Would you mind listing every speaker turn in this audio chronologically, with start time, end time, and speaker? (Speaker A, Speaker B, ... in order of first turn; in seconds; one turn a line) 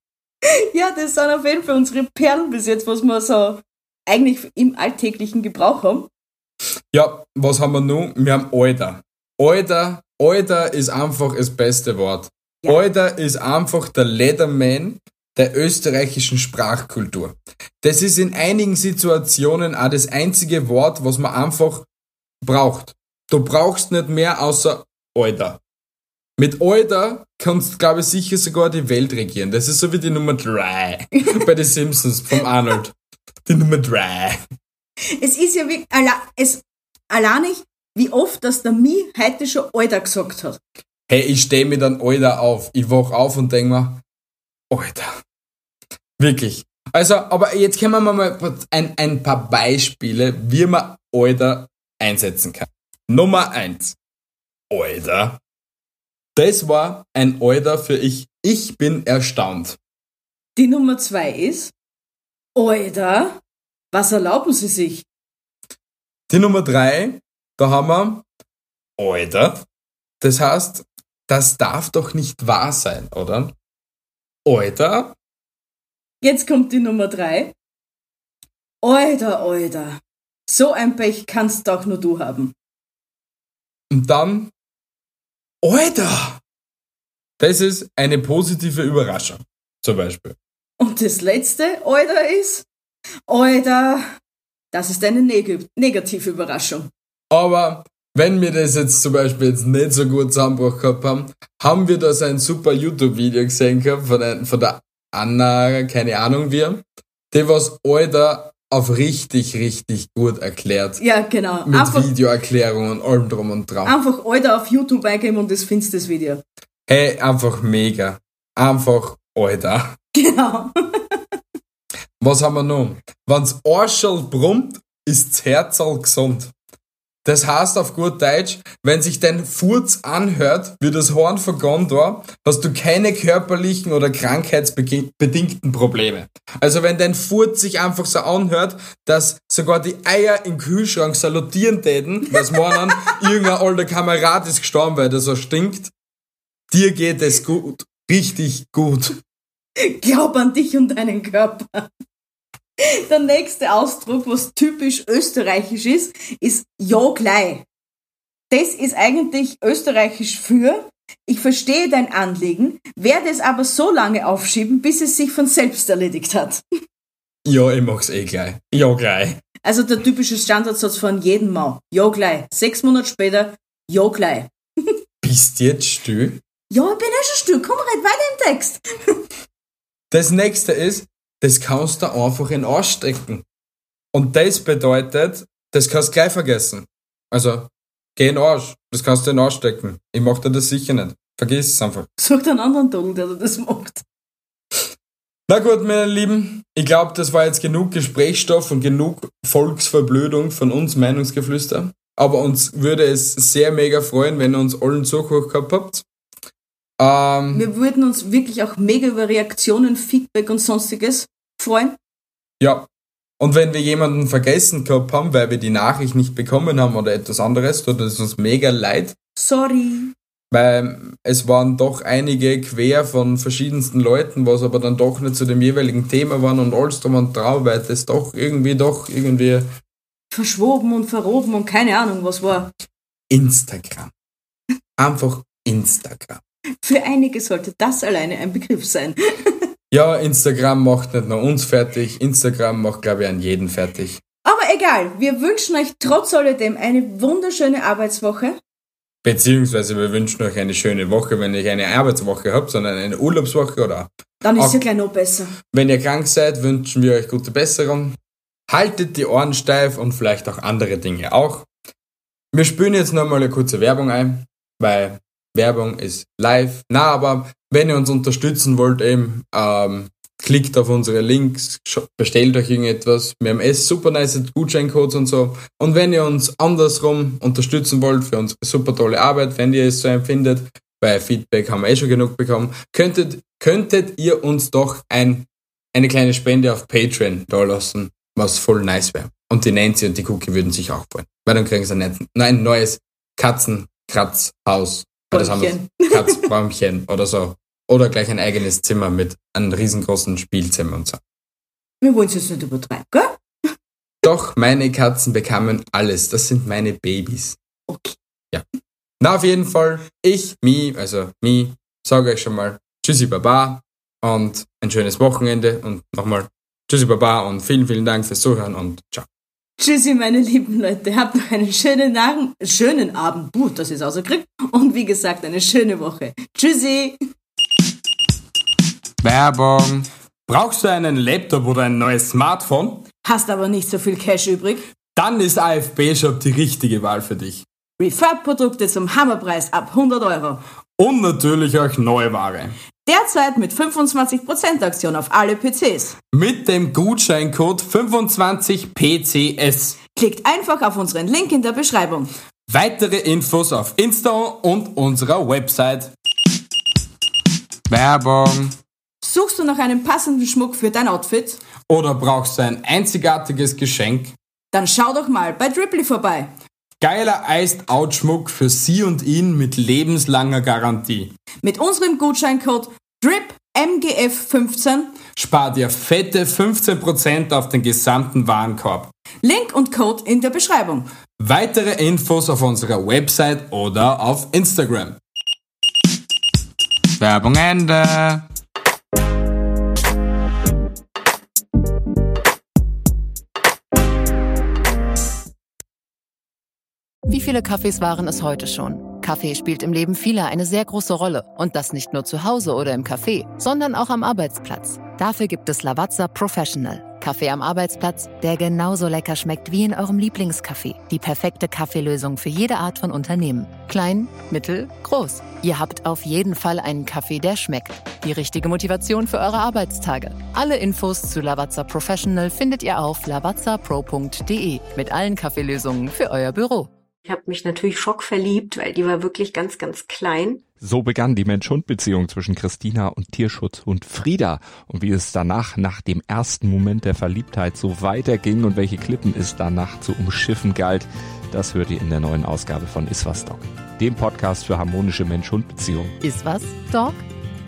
Speaker A: 0.5-6.1
Speaker B: 6.9-21.9
Speaker B: 22.4-25.6
Speaker B: 26.4-33.0
Speaker B: 33.5-34.4
Speaker A: 35.2-40.6
Speaker B: 41.1-44.0
Speaker B: 44.7-45.2
Speaker B: 46.2-54.0
Speaker B: 54.7-55.4
Speaker B: 56.4-59.8
Speaker A: 60.6-61.7
Speaker A: 62.5-63.4
Speaker A: 63.9-65.1
Speaker B: 66.3-68.3
Speaker B: 69.0-69.6
Speaker B: 70.2-73.5
Speaker B: 74.5-75.2
Speaker A: 76.2-77.5
Speaker A: 78.8-82.5
Speaker B: 83.9-84.5
Speaker B: 85.6-86.4
Speaker B: 87.4-90.4
Speaker A: 90.8-92.7
Speaker A: 93.3-94.1
Speaker A: 94.7-96.9
Speaker B: 97.3-111.0
Speaker A: 111.0-112.1
Speaker B: 111.7-114.0
Speaker A: 113.8-116.4
Speaker B: 116.9-120.0
Speaker A: 120.1-120.7
Speaker B: 122.2-126.5
Speaker B: 127.2-145.9
Speaker A: 142.5-143.2
Speaker B: 146.7-149.2
Speaker A: 149.8-151.9
Speaker A: 152.9-157.7
Speaker A: 158.5-166.6
Speaker B: 167.4-169.4
Speaker A: 169.6-174.5
Speaker B: 175.2-176.4
Speaker A: 176.7-179.2
Speaker B: 180.1-183.4
Speaker B: 184.1-192.1
Speaker A: 192.2-194.0
Speaker B: 195.5-206.0
Speaker B: 207.0-207.7
Speaker A: 207.5-212.0
Speaker B: 212.6-212.9
Speaker B: 213.4-219.2
Speaker A: 219.4-220.1
Speaker B: 220.5-229.7
Speaker A: 230.3-232.7
Speaker B: 233.3-234.1
Speaker B: 235.0-236.4
Speaker A: 236.8-239.2
Speaker B: 239.9-244.2
Speaker A: 244.4-248.6
Speaker B: 249.2-254.8
Speaker A: 254.4-255.6
Speaker B: 255.7-261.7
Speaker B: 262.5-301.2
Speaker A: 295.3-296.4
Speaker A: 302.0-303.4
Speaker B: 304.2-307.6
Speaker A: 307.9-308.2
Speaker B: 309.2-319.3
Speaker A: 319.8-327.2
Speaker B: 329.2-333.1
Speaker A: 333.2-334.9
Speaker B: 335.2-337.6
Speaker A: 338.0-340.6
Speaker B: 341.0-342.8
Speaker A: 343.1-346.2
Speaker B: 346.3-350.0
Speaker A: 350.1-352.3
Speaker B: 352.7-356.1
Speaker B: 357.9-358.8
Speaker A: 359.2-361.6
Speaker B: 361.9-364.4
Speaker A: 364.7-366.5
Speaker B: 367.0-371.4
Speaker A: 371.6-375.2
Speaker B: 375.4-379.1
Speaker A: 379.4-381.1
Speaker B: 381.4-385.2
Speaker B: 387.2-388.4
Speaker C: 397.3-426.9
Speaker D: 427.2-430.6
Speaker E: 430.8-446.1
Speaker C: 446.2-447.2